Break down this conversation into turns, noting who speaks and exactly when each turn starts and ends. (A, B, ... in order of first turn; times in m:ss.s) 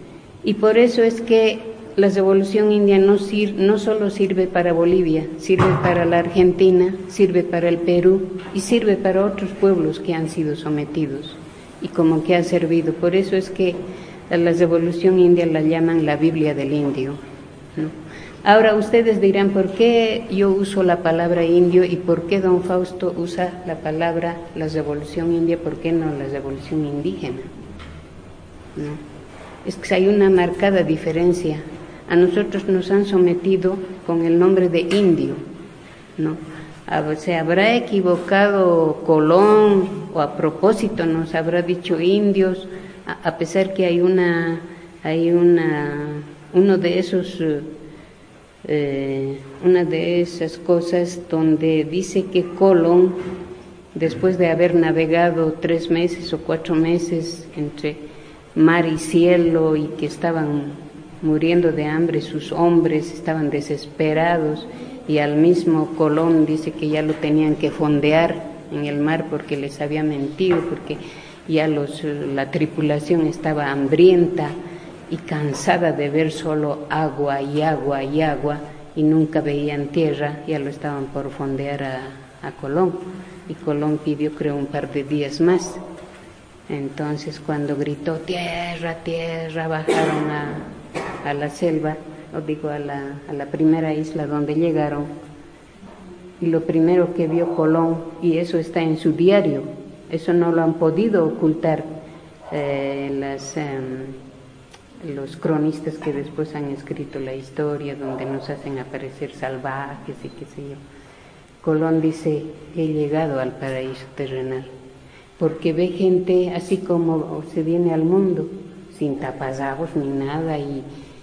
0:00.4-0:17.2 A
0:17.8-0:27.5 A
0:28.8-0:29.0 A
0:29.6-0:35.4 A
0:36.2-0:47.7 A
0:48.6-0:53.2 A
0:53.9-1:14.6 A
1:15.1-1:25.8 A
1:26.7-1:30.7 A
1:31.2-1:35.1 A
1:36.4-1:41.9 A
1:42.5-1:44.2 A
1:45.0-1:50.8 A
1:51.6-1:54.7 A
1:55.4-2:00.9 A